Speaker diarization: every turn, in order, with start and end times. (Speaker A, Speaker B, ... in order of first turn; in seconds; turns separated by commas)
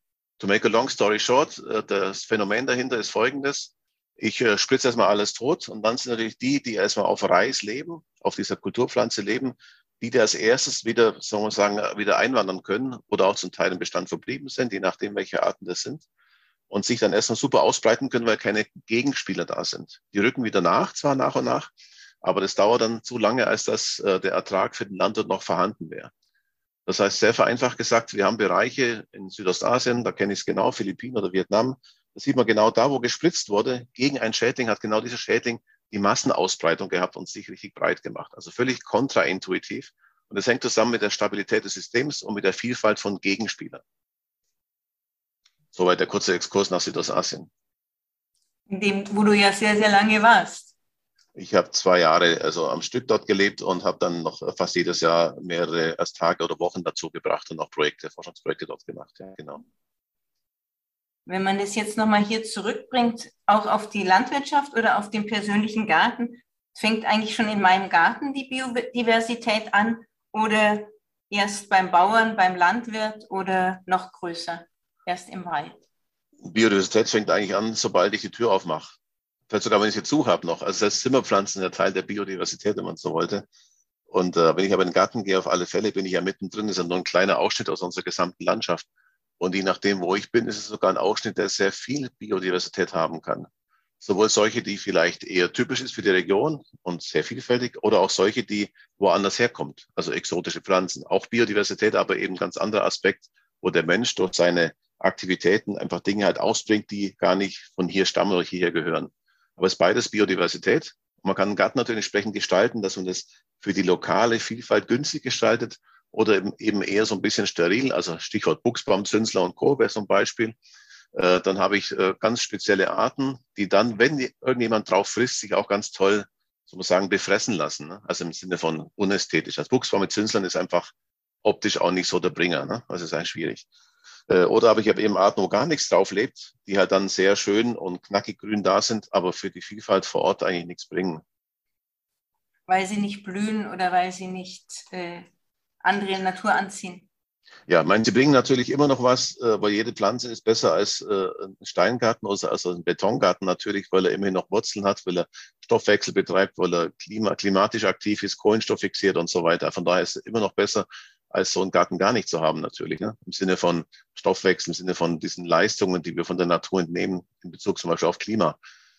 Speaker A: 0.4-16.1, Speaker A: 16.7-26.1, Speaker A: 26.9-43.8, Speaker A: 45.8-47.5, Speaker B: 48.7-50.7, Speaker A: 51.4-59.6, Speaker B: 61.3-75.8, Speaker A: 76.4-79.0, Speaker A: 79.5-83.5, Speaker A: 84.1-88.9, Speaker A: 89.4-93.5, Speaker A: 94.0-120.6, Speaker A: 121.1-130.9, Speaker A: 131.4-133.7, Speaker A: 134.3-141.2, Speaker B: 142.7-145.3, Speaker B: 145.8-147.1, Speaker A: 147.7-168.6